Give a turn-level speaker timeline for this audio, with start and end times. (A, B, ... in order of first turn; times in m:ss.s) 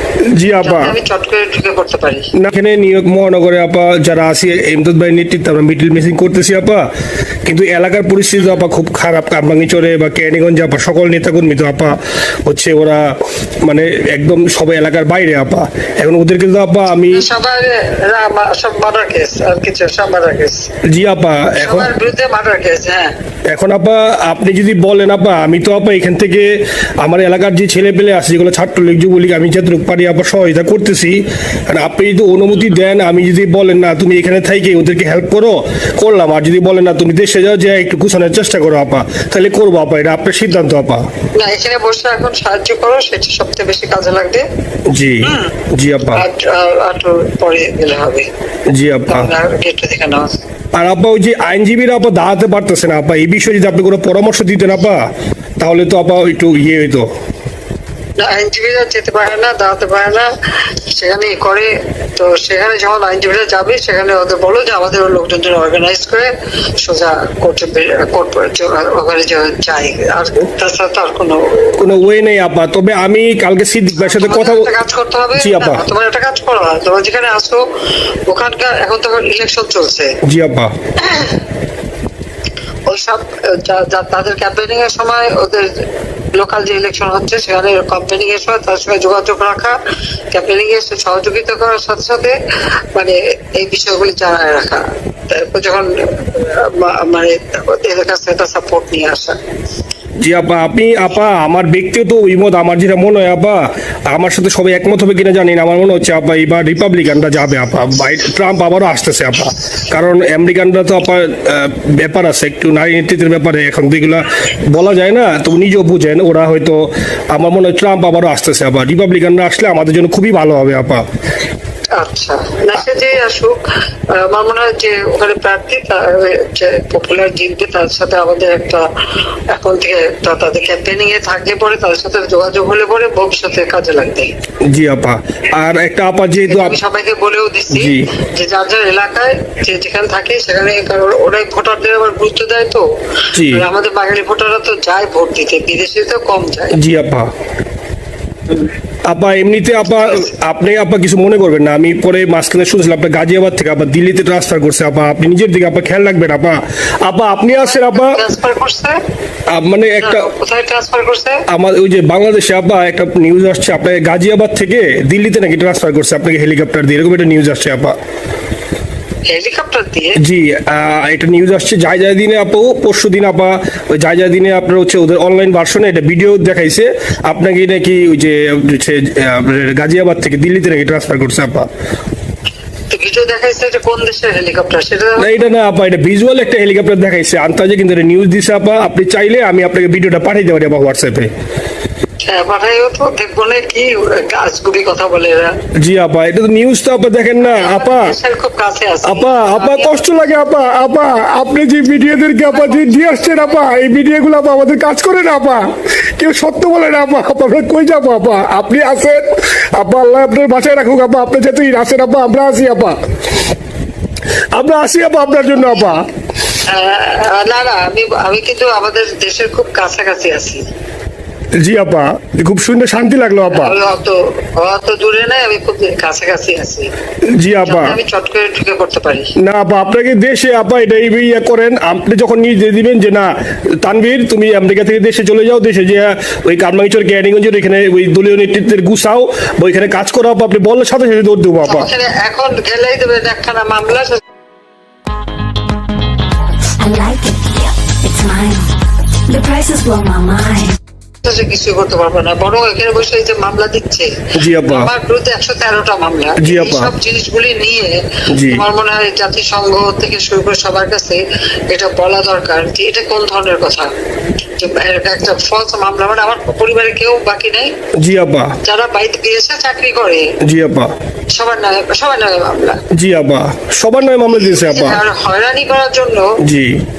0:00.3-0:01.0 A
0:00.6-0:02.3 B
0:02.4-0:06.9 A
0:07.4-0:17.3 A
0:17.1-0:20.7 B
0:20.8-0:21.9 A
0:21.6-0:23.1 B
0:23.5-0:41.1 A
0:41.4-0:44.4 B
0:44.9-0:46.2 A
0:45.2-0:45.6 B
0:46.1-0:48.3 B
0:48.7-0:49.3 A
0:49.1-0:50.4 B
0:50.8-0:55.1 A
0:55.6-0:57.1 A
0:58.2-1:11.8 B
1:11.8-1:14.7 A
1:14.0-1:17.6 B
1:15.4-1:15.8 A
1:18.3-1:20.1 B
1:20.2-1:20.7 A
1:21.0-1:21.4 B
1:22.9-1:29.8 B
1:30.3-1:32.4 B
1:32.9-1:39.4 B
1:40.2-2:01.0 A
2:02.0-2:08.9 B
2:09.5-2:14.3 B
2:14.6-2:16.8 A
2:16.4-2:22.8 B
2:17.7-2:18.1 A
2:23.3-2:23.7 A
2:23.4-2:26.8 B
2:26.7-2:27.3 A
2:29.1-2:38.2 A
2:29.9-2:30.3 B
2:37.5-2:39.0 B
2:39.5-2:40.3 A
2:40.0-2:41.4 B
2:41.5-2:48.0 A
2:49.3-2:50.2 B
2:50.2-3:01.7 A
3:02.9-3:05.4 B
3:05.2-3:11.3 A
3:12.2-3:15.5 B
3:15.8-3:18.2 A
3:17.4-3:20.2 B
3:19.1-3:33.0 A
3:22.5-3:23.6 B
3:34.5-3:36.0 A
3:36.7-3:40.6 B
3:41.6-3:43.8 A
3:43.5-3:46.9 B
3:47.4-3:48.0 A
3:47.6-3:49.3 B
3:49.4-4:01.9 A
4:01.6-4:04.2 B
4:06.8-4:08.8 C
4:09.3-4:10.8 C
4:11.2-4:23.9 B
4:14.3-4:14.9 A
4:16.4-4:16.9 A
4:18.3-4:18.6 A
4:24.6-4:27.7 B
4:28.0-4:28.6 A
4:28.6-4:30.3 B
4:30.4-4:30.9 A
4:31.3-4:32.8 B
4:32.9-4:35.0 A
4:34.3-4:36.4 B
4:36.4-4:36.8 A